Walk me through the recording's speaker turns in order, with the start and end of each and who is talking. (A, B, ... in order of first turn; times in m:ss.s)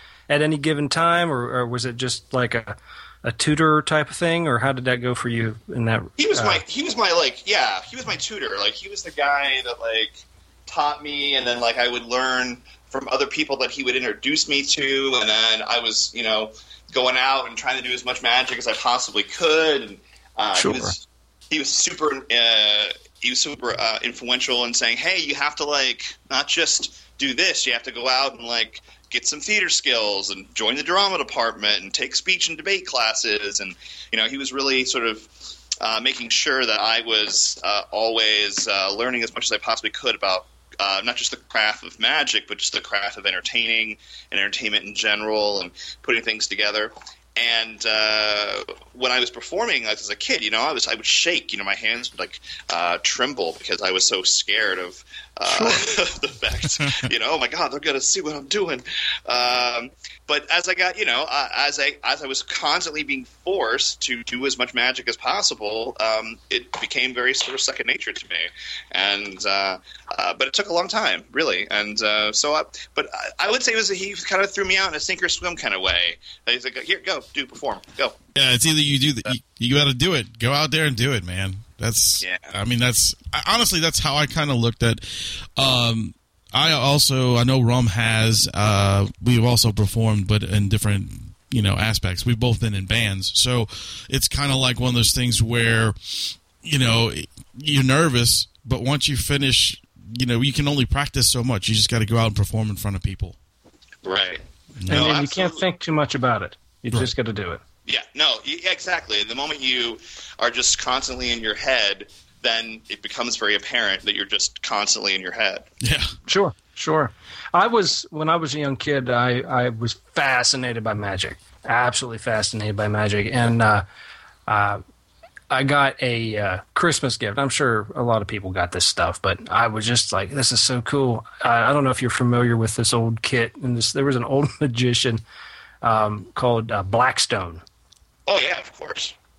0:00.3-0:06.6 A
0:06.2-1:18.2 B
0:20.6-0:20.9 A
0:55.5-0:55.8 C
0:56.8-0:57.0 C
1:18.3-1:43.4 C
1:22.2-1:22.5 B
1:44.0-1:45.6 B
1:44.8-1:45.2 C
1:44.9-1:47.6 A
1:47.8-1:55.7 B
1:55.8-1:56.1 C
1:56.3-2:03.8 A
2:04.5-2:04.8 A
2:05.5-2:15.2 A
2:15.8-2:17.6 A
2:18.3-2:19.1 B